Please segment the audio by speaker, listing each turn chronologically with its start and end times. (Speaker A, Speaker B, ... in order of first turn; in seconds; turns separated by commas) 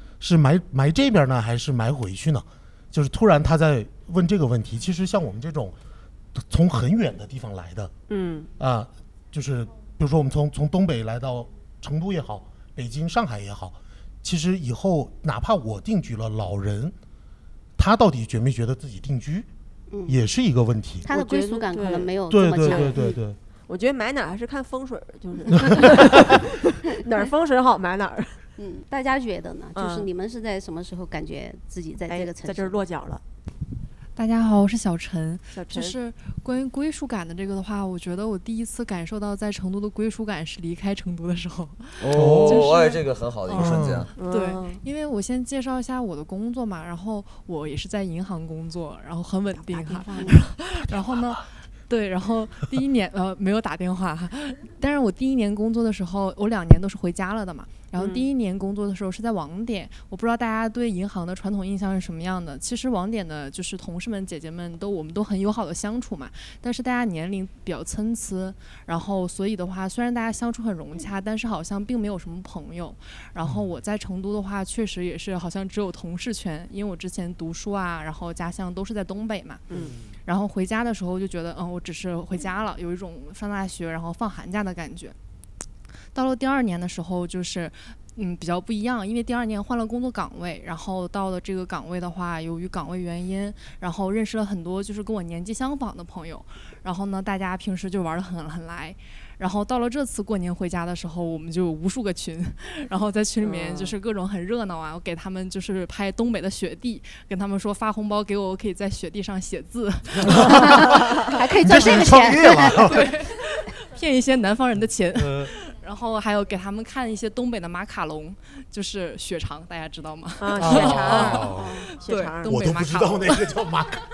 Speaker A: 0.2-5.8, Speaker A: 6.3-7.9, Speaker B: 8.1-8.5, Speaker A: 8.6-16.9, Speaker A: 17.8-19.5, Speaker C: 19.9-20.2, Speaker A: 20.1-21.1, Speaker C: 21.0-23.2, Speaker B: 21.1-23.0, Speaker A: 22.3-23.4, Speaker B: 23.7-28.4, Speaker A: 25.6-26.1, Speaker C: 28.6-32.8, Speaker B: 29.8-30.1, Speaker B: 32.1-33.2, Speaker D: 34.2-43.0, Speaker B: 35.5-36.0, Speaker E: 42.0-44.1, Speaker A: 42.1-42.7, Speaker B: 43.5-44.8, Speaker A: 43.5-44.1, Speaker D: 44.3-79.6, Speaker B: 49.6-50.3, Speaker C: 50.1-50.4, Speaker B: 58.0-58.2, Speaker B: 79.7-80.0, Speaker A: 79.7-80.0, Speaker D: 80.3-85.2, Speaker D: 86.2-110.2, Speaker B: 103.4-103.9, Speaker A: 110.2-110.8, Speaker C: 110.4-112.9, Speaker A: 111.6-113.1, Speaker D: 113.9-121.4, Speaker A: 115.1-115.5, Speaker B: 120.4-123.3, Speaker A: 120.6-121.7, Speaker D: 121.9-123.3, Speaker A: 122.4-124.0